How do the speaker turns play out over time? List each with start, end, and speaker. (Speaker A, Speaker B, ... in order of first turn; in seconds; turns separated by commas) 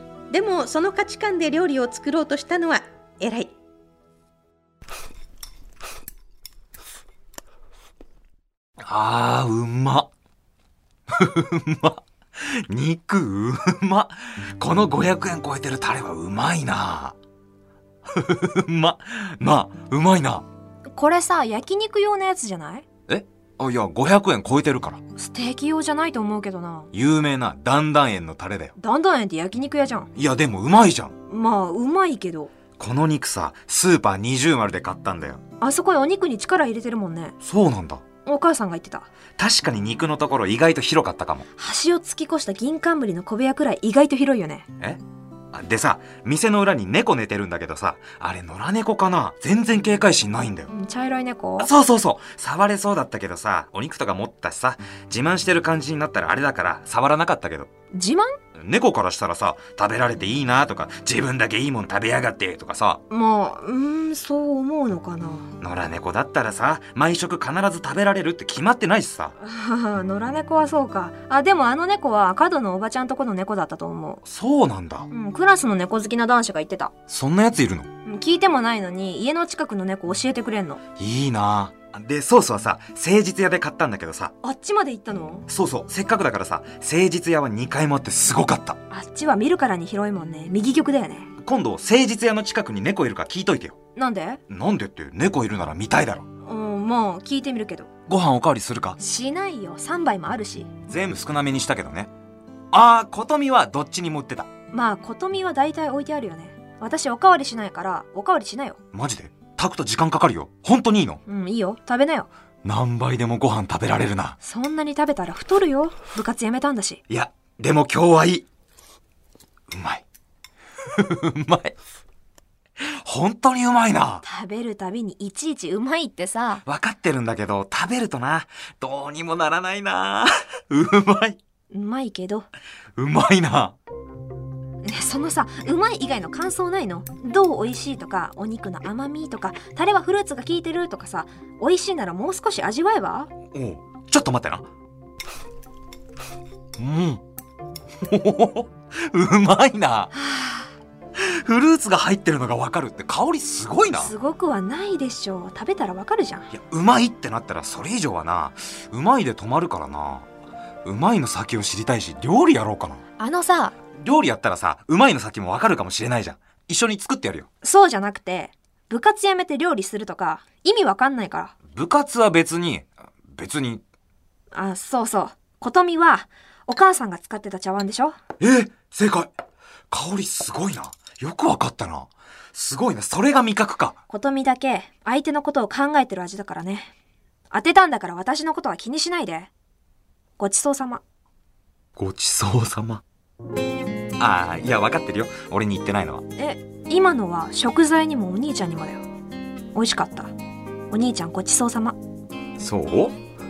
Speaker A: 0.3-3.5, Speaker B: 8.8-10.1, Speaker B: 11.1-17.1, Speaker B: 18.1-20.4, Speaker C: 20.9-22.9, Speaker B: 23.1-25.0, Speaker C: 25.1-26.9, Speaker B: 26.9-28.7, Speaker C: 28.8-30.1, Speaker B: 30.1-31.1, Speaker C: 31.3-32.5, Speaker B: 32.8-35.4, Speaker C: 35.6-37.3, Speaker B: 37.4-38.0, Speaker C: 38.2-39.1, Speaker B: 39.4-41.4, Speaker C: 41.5-44.7, Speaker B: 45.5-50.7, Speaker C: 50.7-51.7, Speaker B: 51.6-57.7, Speaker C: 57.9-58.4, Speaker B: 58.5-63.0, Speaker C: 63.1-65.5, Speaker B: 65.6-69.3, Speaker C: 69.4-74.2, Speaker B: 74.2-75.1, Speaker C: 75.1-76.9, Speaker B: 77.1-77.9, Speaker C: 78.0-80.8, Speaker B: 81.0-84.3, Speaker C: 84.4-85.5, Speaker B: 85.5-88.8, Speaker C: 88.9-91.3, Speaker B: 91.4-93.8, Speaker C: 93.9-94.4, Speaker B: 94.5-96.3, Speaker C: 96.4-97.9, Speaker B: 98.1-99.0, Speaker C: 99.0-100.8, Speaker B: 100.9-102.1, Speaker B: 102.7-104.5, Speaker C: 104.7-108.8, Speaker B: 108.9-111.2, Speaker C: 111.2-112.3, Speaker B: 112.6-114.4, Speaker C: 114.4-117.0, Speaker B: 117.1-118.5, Speaker B: 119.7-120.0, Speaker B: 120.8-121.8, Speaker B: 122.8-124.2, Speaker C: 124.2-126.6, Speaker B: 126.6-131.4, Speaker C: 131.7-132.5, Speaker B: 133.0-133.8, Speaker C: 134.8-143.3, Speaker B: 143.5-144.7, Speaker B: 146.8-147.2, Speaker B: 148.0-150.1, Speaker C: 150.1-150.7, Speaker B: 151.1-154.1, Speaker C: 153.9-156.5, Speaker B: 156.5-160.3, Speaker B: 160.8-163.0, Speaker C: 163.2-163.8, Speaker B: 163.9-167.5, Speaker C: 167.6-171.5, Speaker B: 171.7-173.8, Speaker C: 174.5-178.2, Speaker B: 178.4-179.3, Speaker B: 179.9-184.0, Speaker C: 184.1-186.9, Speaker C: 187.5-189.5, Speaker C: 190.4-191.0, Speaker B: 191.9-193.0, Speaker B: 194.2-196.2, Speaker C: 196.3-199.0, Speaker C: 199.7-200.3, Speaker C: 200.9-202.0, Speaker B: 202.6-203.2